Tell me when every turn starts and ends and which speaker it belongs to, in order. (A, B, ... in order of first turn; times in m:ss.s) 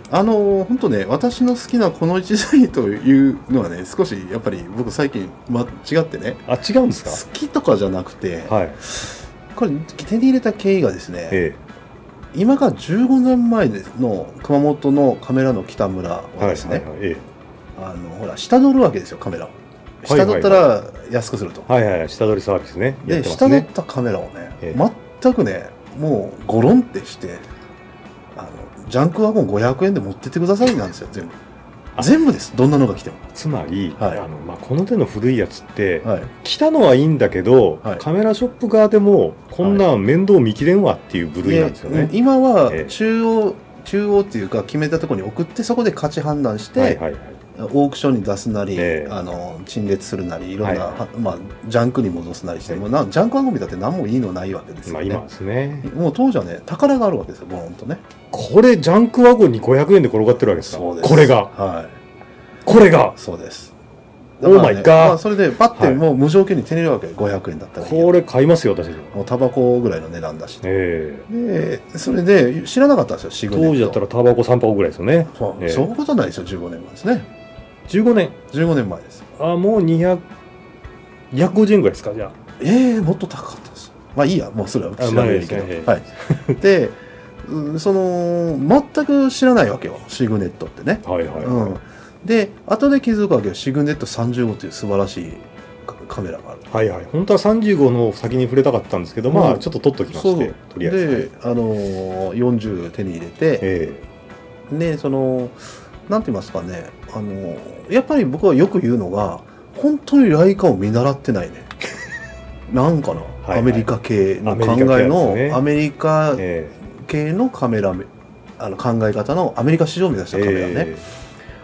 0:00.1-0:06.5 A
0:06.5-0:07.2 B
0:07.0-0:11.4 A
0:08.5-0:08.8 B
0:11.3-0:11.6 B
0:12.3-0:16.9 A
0:16.4-0:17.3 B
0:17.8-0:21.7 A
0:20.0-0:20.7 B
0:21.7-0:23.7 B
0:23.0-0:27.5 A
0:28.4-0:31.4 A
0:32.0-0:33.2 A
0:33.3-0:42.1 B
0:34.0-0:34.2 A
0:36.0-0:36.3 A
0:41.4-0:47.0 A
0:42.7-0:43.0 B
0:46.8-0:47.4 B
0:47.6-0:55.2 A
0:48.8-0:49.2 B
0:50.6-0:51.0 B
0:54.9-0:55.9 B
0:55.8-0:58.0 A
0:58.3-1:01.5 B
1:00.5-1:02.0 A
1:02.7-1:03.2 B
1:03.1-1:03.7 A
1:04.4-1:08.2 A
1:04.4-1:06.0 B
1:07.8-1:09.2 B
1:09.1-1:10.6 A
1:10.6-1:11.3 B
1:11.3-1:14.0 A
1:13.5-1:15.9 B
1:15.3-1:17.3 A
1:17.9-1:18.4 B
1:18.5-1:19.3 A
1:19.4-1:20.2 B
1:21.3-1:22.4 B
1:22.6-1:36.7 A
1:25.0-1:26.6 B
1:31.0-1:31.8 B
1:36.7-1:41.3 B
1:39.2-1:43.7 A
1:43.6-1:44.0 B
1:44.7-1:51.7 A
1:52.7-1:58.1 A
1:53.4-1:53.9 B
1:54.4-1:55.6 B
1:56.4-1:56.8 B
1:58.6-2:00.9 A
2:00.3-2:01.1 B